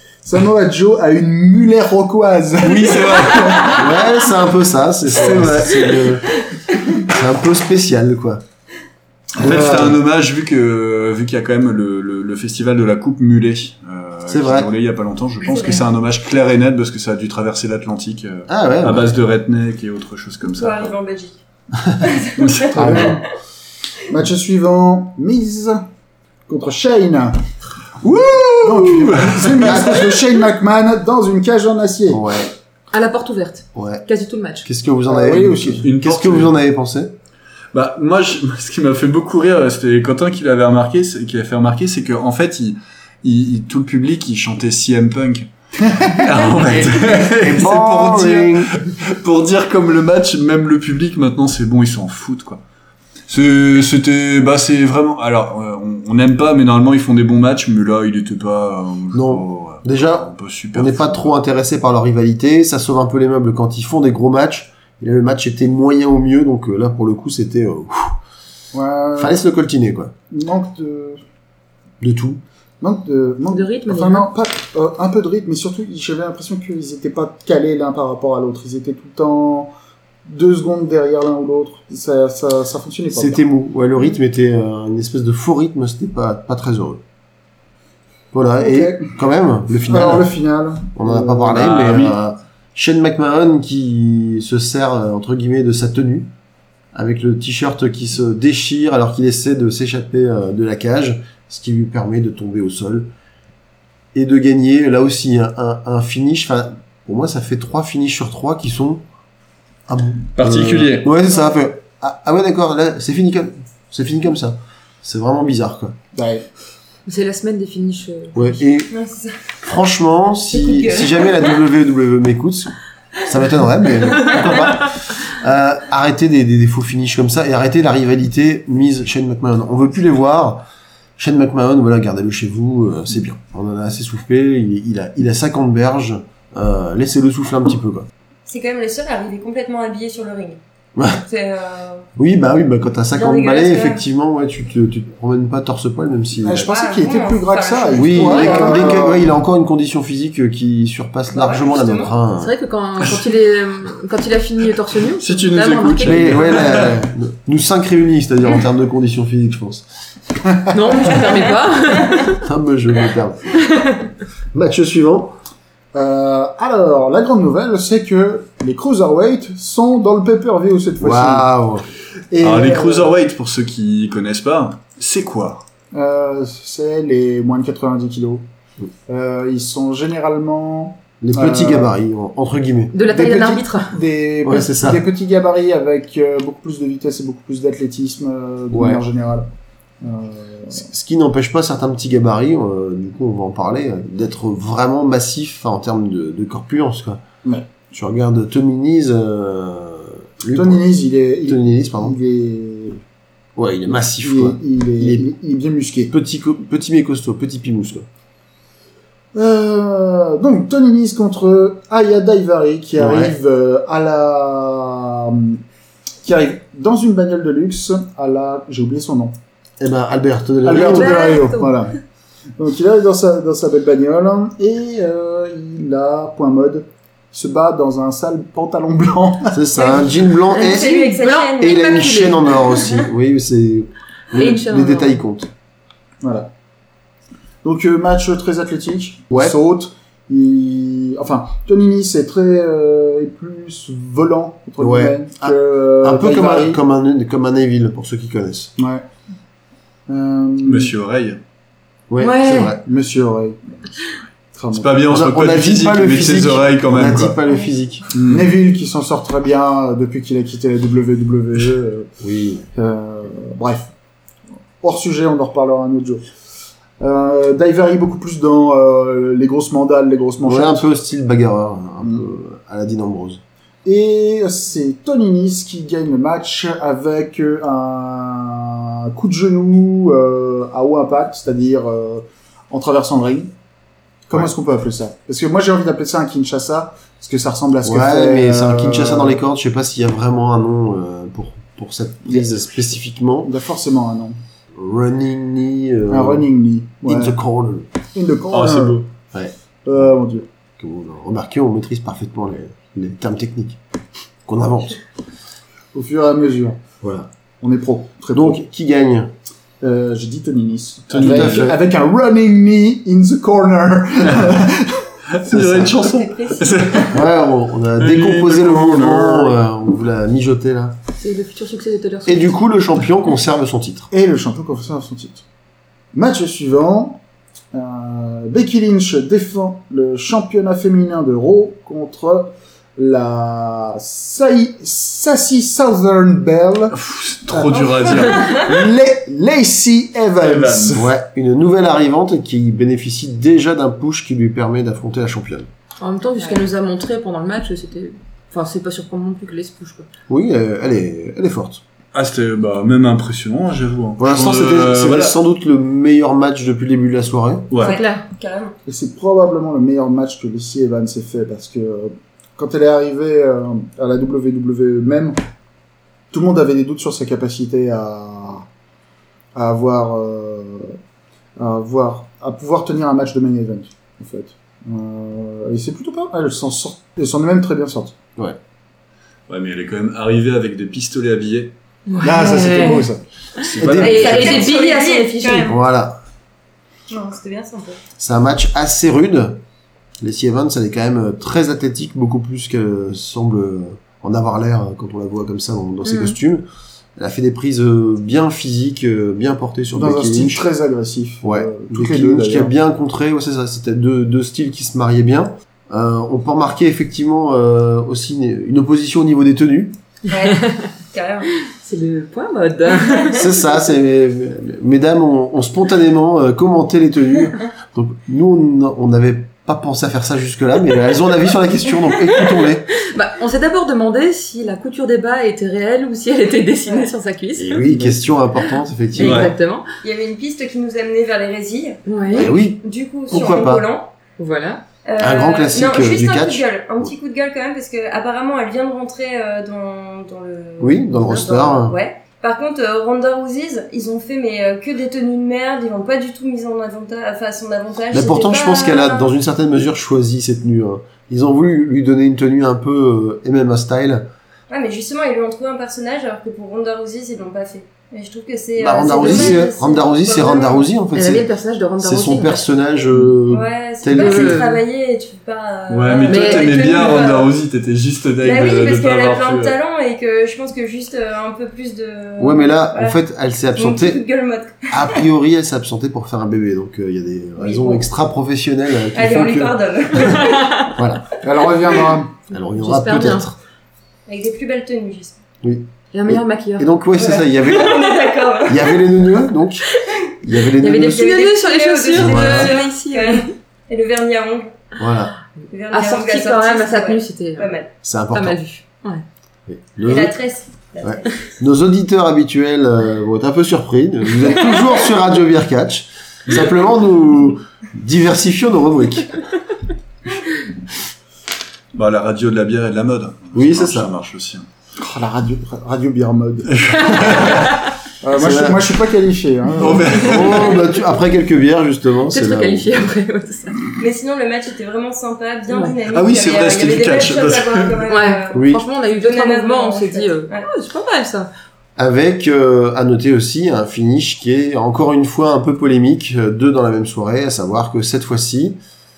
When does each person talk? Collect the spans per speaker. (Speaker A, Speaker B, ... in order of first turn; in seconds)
Speaker A: 0.2-3.7, 9.4-9.9, 22.7-23.2, 24.1-25.8, 26.5-27.4, 28.6-32.2, 35.1-35.9, 68.7-69.4, 70.3-71.2, 72.8-79.7, 80.2-83.5, 88.6-89.1, 89.8-91.7, 116.1-116.5, 146.4-149.3, 165.9-171.5, 172.3-173.1, 175.9-178.4, 179.1-181.9, 183.0-189.5, 190.0-190.8, 197.4-197.7, 200.5-203.0, 204.2-206.1, 209.3-215.6, 216.2-219.3, 220.6-221.9, 222.6-229.6, 236.2-236.5, 237.6-246.8, 248.8-249.1, 250.1-250.9, 252.8-253.8, 254.5-255.0, 258.1-262.1, 262.7-263.9, 264.8-266.2, 267.0-270.8, 273.8-283.5, 284.3-289.4, 293.4-294.4, 296.1-297.4, 298.1-299.0, 299.9-300.4, 305.9-306.8, 307.6-308.6, 309.8-315.7, 324.1-325.4, 326.1-327.2, 327.7-337.0, 337.5-341.1, 358.9-365.4, 366.3-368.7, 369.5-371.0, 371.6-378.1, 382.2-383.2, 399.9-402.7, 481.4-482.4, 515.0-517.0, 518.2-520.2
Speaker B: 2.6-3.7, 5.2-5.6, 9.4-20.9, 22.4-23.2, 28.0-29.8, 35.8-36.6, 37.7-52.6, 53.3-61.3, 91.5-92.2, 110.4-111.1, 155.2-157.0, 172.4-175.7, 250.6-251.4, 254.7-257.4, 258.1-258.5, 298.5-299.1, 311.1-311.7, 315.3-317.2, 318.0-319.6, 336.9-338.6, 340.4-341.0, 352.1-355.3, 357.7-358.0, 379.5-381.7, 383.6-384.6, 429.2-429.5, 465.9-469.7, 511.9-514.7, 516.7-517.8, 519.8-520.8, 526.1-528.0
Speaker C: 3.7-6.3, 7.0-8.4, 9.4-10.0, 14.2-14.7, 18.5-19.1, 22.8-23.1, 29.6-30.0, 32.1-32.5, 33.7-34.0, 34.6-37.1, 46.8-48.7, 59.1-68.2, 69.2-70.1, 72.0-72.4, 83.1-87.0, 88.3-90.3, 90.9-96.3, 96.9-103.1, 104.1-109.0, 109.9-116.0, 118.3-118.9, 119.6-130.6, 131.2-138.1, 140.9-141.2, 142.2-146.7, 147.9-152.5, 156.0-159.8, 162.3-163.6, 164.5-165.3, 171.0-171.9, 181.2-182.9, 184.4-185.0, 188.7-189.0, 190.8-197.2, 197.9-200.9, 201.4-202.2, 203.6-205.2, 206.1-208.1, 213.0-213.3, 219.8-221.3, 229.5-235.5, 244.8-248.7, 252.1-252.8, 255.1-258.1, 262.2-262.6, 270.4-273.4, 287.8-293.5, 294.8-296.4, 297.0-297.9, 299.3-300.1, 300.8-303.8, 304.4-305.0, 307.0-307.3, 308.3-309.3, 311.1-311.8, 315.5-315.9, 317.1-320.9, 322.2-324.1, 340.9-345.7, 350.3-351.8, 354.2-357.7, 383.8-384.8, 385.6-386.2, 388.2-389.6, 390.2-396.6, 397.1-400.6, 401.4-409.9, 413.3-422.9, 427.6-429.5, 432.3-433.8, 435.2-437.1, 440.8-441.9, 448.1-454.3, 458.8-461.5, 462.0-464.6, 472.4-474.2, 474.9-480.3, 480.9-481.3, 482.5-483.6, 485.6-488.1, 488.6-491.4, 492.1-492.7, 495.0-495.3, 498.0-498.6, 499.7-500.4, 501.0-509.4, 513.5-514.1, 518.3-519.0, 519.8-522.9, 528.5-528.8, 532.0-538.8
Speaker D: 15.4-15.8, 20.6-21.4, 22.0-23.1, 118.9-119.4, 120.5-121.5, 124.3-124.5, 138.4-142.1, 143.1-144.0, 146.5-149.1, 151.3-152.1, 229.7-232.0, 315.9-317.1, 337.7-338.7, 357.8-358.7, 384.0-385.8, 387.1-388.0, 410.3-411.5, 413.0-413.4, 426.8-427.1, 430.0-434.1, 435.0-449.3, 454.7-460.8, 463.5-467.5, 468.4-473.1, 473.8-475.2, 477.6-478.0, 479.1-480.9, 484.3-485.4, 487.1-489.0, 490.9-494.8, 495.7-497.9, 500.0-501.5, 524.0-530.7
Speaker E: 32.9-34.7, 73.5-74.3, 117.0-118.6, 152.4-156.6, 160.7-162.4, 163.5-164.1, 182.9-183.9, 220.7-221.8, 230.5-232.9, 234.3-235.2, 252.2-252.7, 321.2-322.5, 346.0-350.1, 357.8-358.2, 382.1-383.1, 383.6-385.7, 410.4-410.9, 411.6-413.4, 422.9-427.9, 428.6-429.9, 432.1-432.5, 434.4-434.8, 459.1-459.6, 461.1-462.7, 464.1-464.8, 466.1-467.3, 480.5-480.9, 482.8-483.5, 486.1-486.9, 490.8-493.5, 495.9-497.7, 498.3-499.2, 522.3-523.9, 525.7-526.0, 528.0-531.5